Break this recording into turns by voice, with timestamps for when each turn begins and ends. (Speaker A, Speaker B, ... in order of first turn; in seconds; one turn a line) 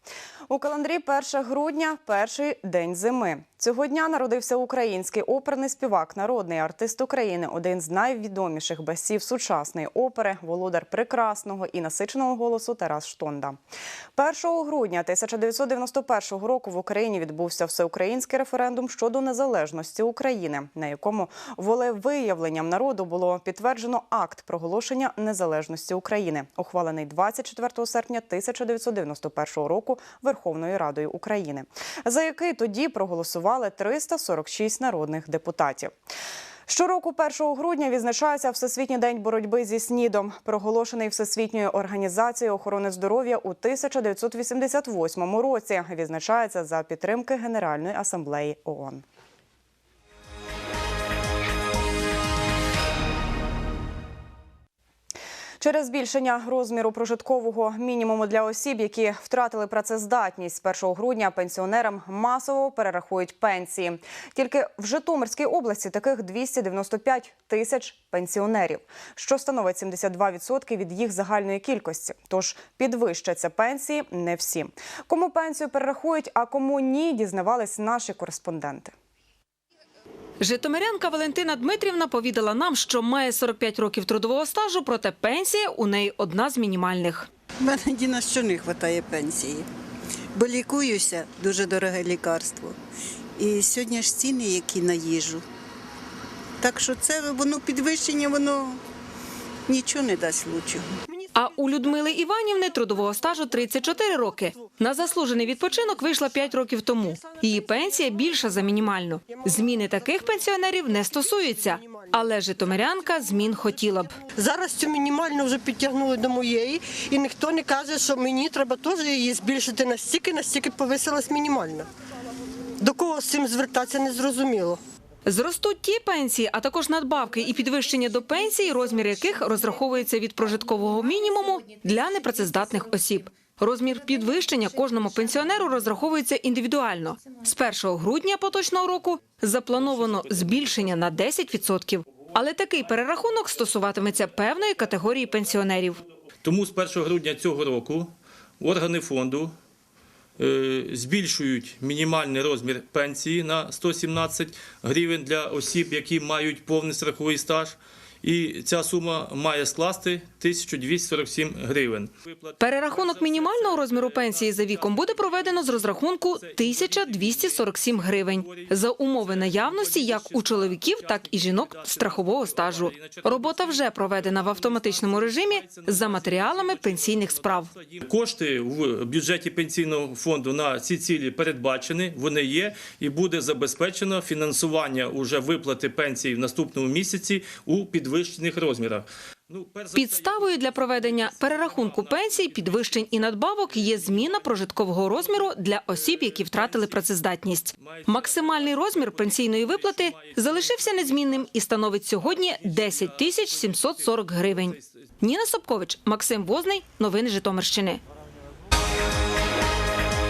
Speaker A: 0.5-13.6
Speaker A: 14.2-35.9
Speaker A: 36.7-49.0
Speaker A: 55.6-78.9
Speaker B: 80.4-87.3
Speaker C: 87.6-89.7
Speaker C: 90.3-92.8
Speaker C: 93.4-95.4
Speaker C: 96.6-98.8
Speaker C: 99.7-101.0
Speaker B: 101.3-114.2
Speaker D: 111.3-112.1
Speaker D: 114.3-121.9
Speaker D: 122.8-124.8
Speaker B: 125.3-146.0
Speaker E: 139.9-140.8
Speaker E: 146.4-149.5
Speaker E: 150.4-197.1
Speaker B: 162.6-177.7
Speaker B: 189.9-208.0
Speaker E: 197.8-204.9